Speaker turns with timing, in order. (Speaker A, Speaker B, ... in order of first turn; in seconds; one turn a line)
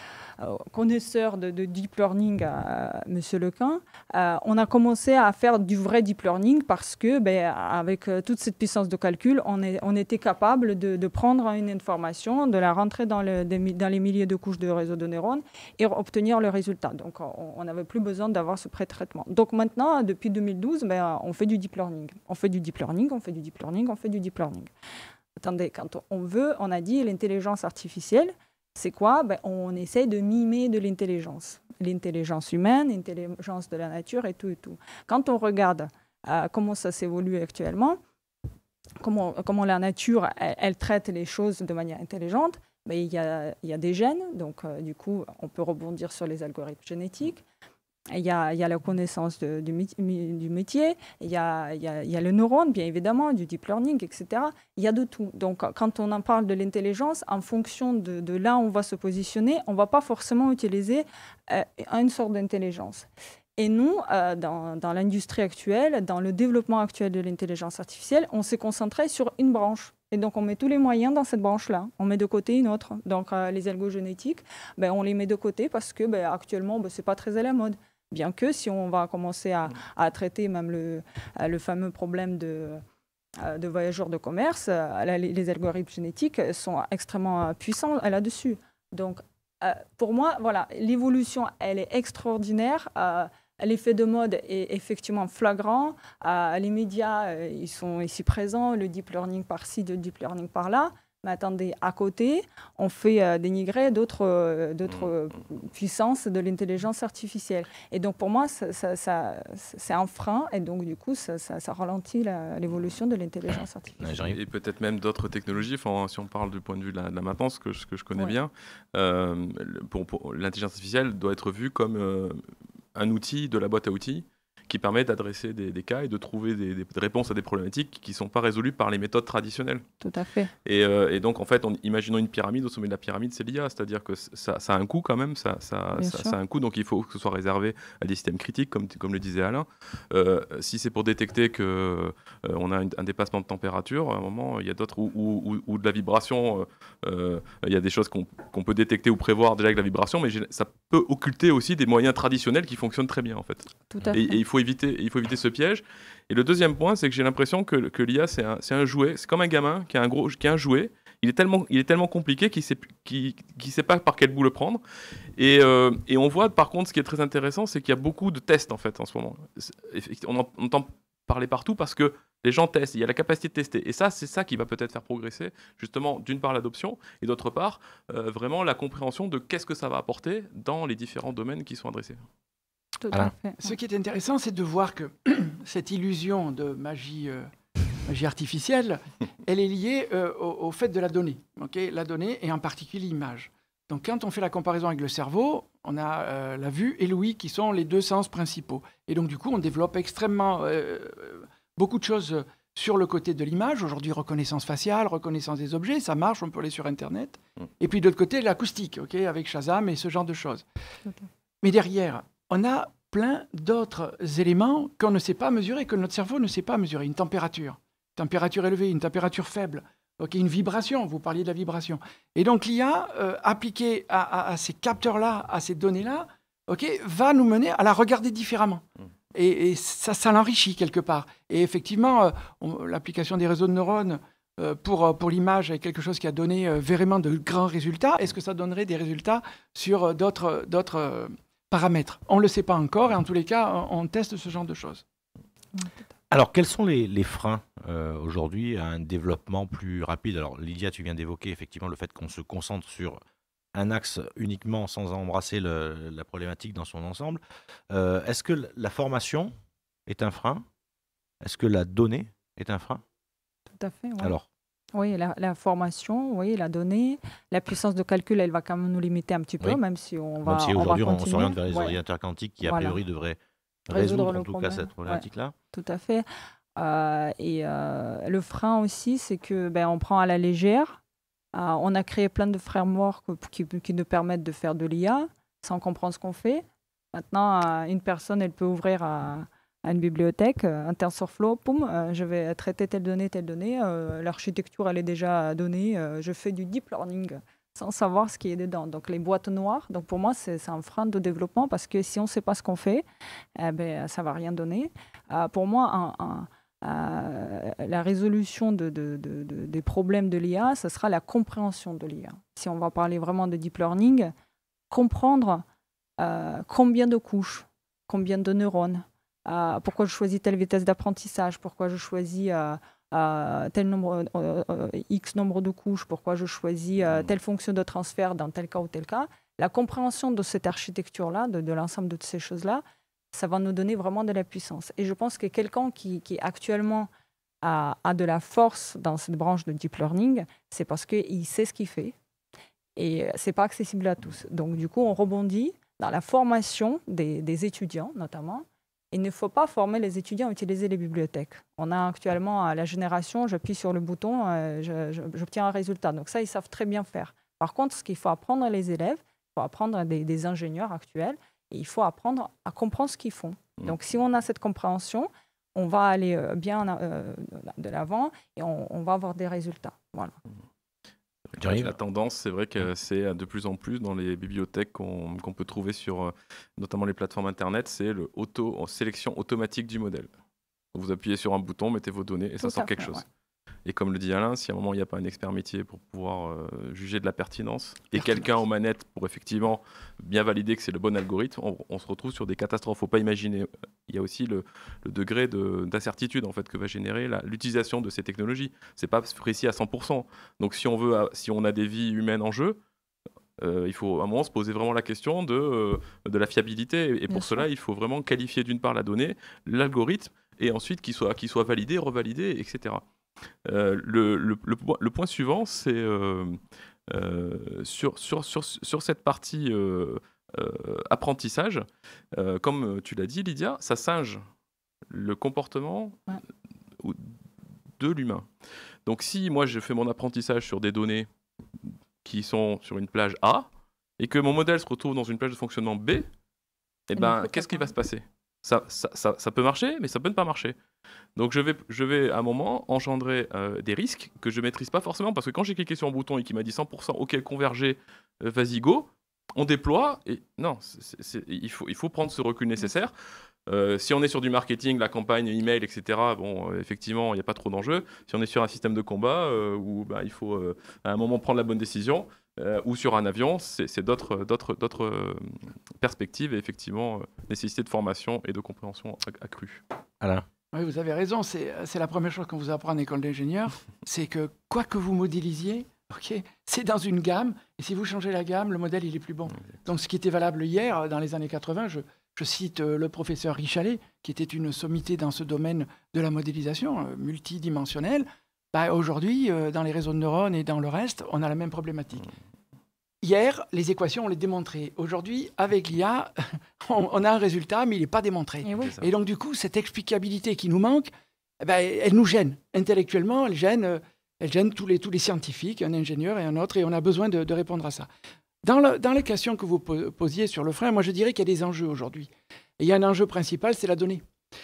Speaker A: 0.4-24.7
Speaker A: 25.4-38.0
Speaker A: 39.0-47.4
Speaker A: 48.1-82.8
Speaker A: 83.4-114.3
Speaker B: 114.0-114.4
Speaker C: 114.3-122.4
Speaker C: 123.0-129.8
Speaker A: 130.0-130.5
Speaker C: 130.7-164.8
Speaker A: 136.0-136.4
Speaker A: 153.9-154.4
Speaker C: 165.4-182.2
Speaker A: 183.0-183.7
Speaker D: 183.6-187.5
Speaker D: 188.1-210.6
Speaker D: 211.6-245.0
Speaker A: 245.7-246.0
Speaker B: 246.3-253.2
Speaker B: 253.8-259.5
Speaker B: 260.1-260.7
Speaker B: 261.4-263.0
Speaker A: 263.8-264.3
Speaker B: 264.2-264.5
Speaker A: 264.9-272.0
Speaker B: 270.4-275.6
Speaker A: 272.6-273.0
Speaker A: 273.9-276.3
Speaker A: 276.8-281.0
Speaker A: 281.5-303.0
Speaker A: 303.6-314.3
Speaker A: 314.9-315.6
Speaker A: 316.2-337.1
Speaker A: 337.6-342.1
Speaker A: 343.0-370.4
Speaker C: 371.5-380.3
Speaker B: 371.6-372.0
Speaker C: 380.9-383.2
Speaker A: 382.6-383.2
Speaker C: 383.9-402.8
Speaker D: 388.1-388.5
Speaker C: 403.6-413.0
Speaker A: 407.3-407.7
Speaker C: 413.6-424.4
Speaker C: 425.1-426.2
Speaker C: 427.0-427.3
Speaker C: 428.0-428.5
Speaker C: 429.1-431.3
Speaker C: 432.2-433.7
Speaker C: 434.2-436.3
Speaker C: 437.1-440.8
Speaker A: 437.2-437.9
Speaker C: 441.4-453.1
Speaker C: 453.7-469.8
Speaker B: 470.2-470.5
Speaker D: 470.7-492.3
Speaker D: 493.2-508.1
Speaker A: 498.6-498.9
Speaker C: 498.8-499.1
Speaker D: 508.6-514.2